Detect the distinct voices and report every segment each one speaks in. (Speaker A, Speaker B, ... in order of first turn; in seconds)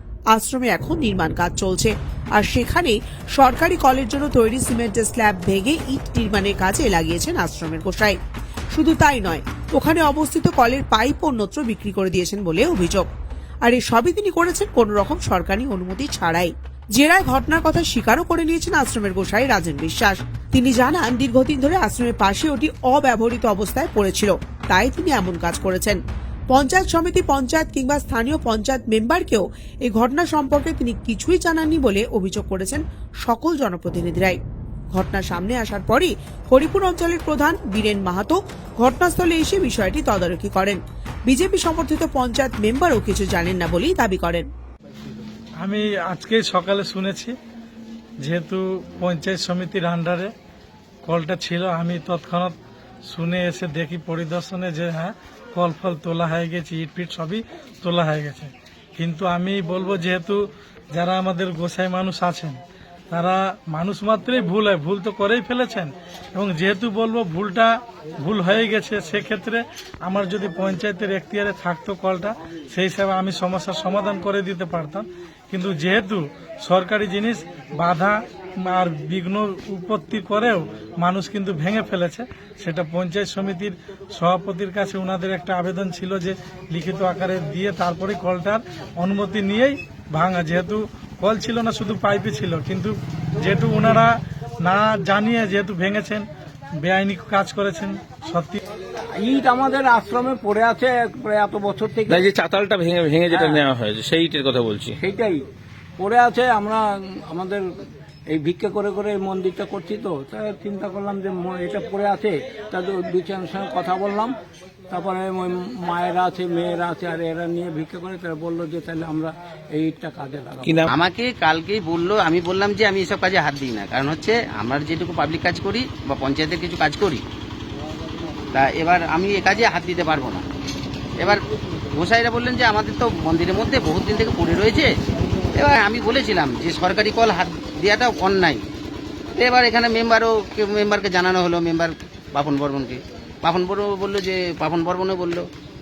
Speaker A: 0.3-8.2, 8.7-13.1, 13.6-26.0, 26.5-34.4, 34.9-44.5
Speaker B: 45.6-47.3, 48.2-50.3, 51.0-52.5, 53.1-60.4, 60.9-62.6, 63.1-94.1, 94.6-96.2, 96.8-98.6
Speaker C: 99.2-102.2, 103.3-103.6, 105.0-105.4, 106.0-107.6, 108.3-114.3, 114.9-120.9
Speaker D: 102.1-105.0, 120.6-120.9
Speaker E: 120.9-127.2, 128.5-130.4, 131.9-134.9, 135.5-138.6, 139.4-145.5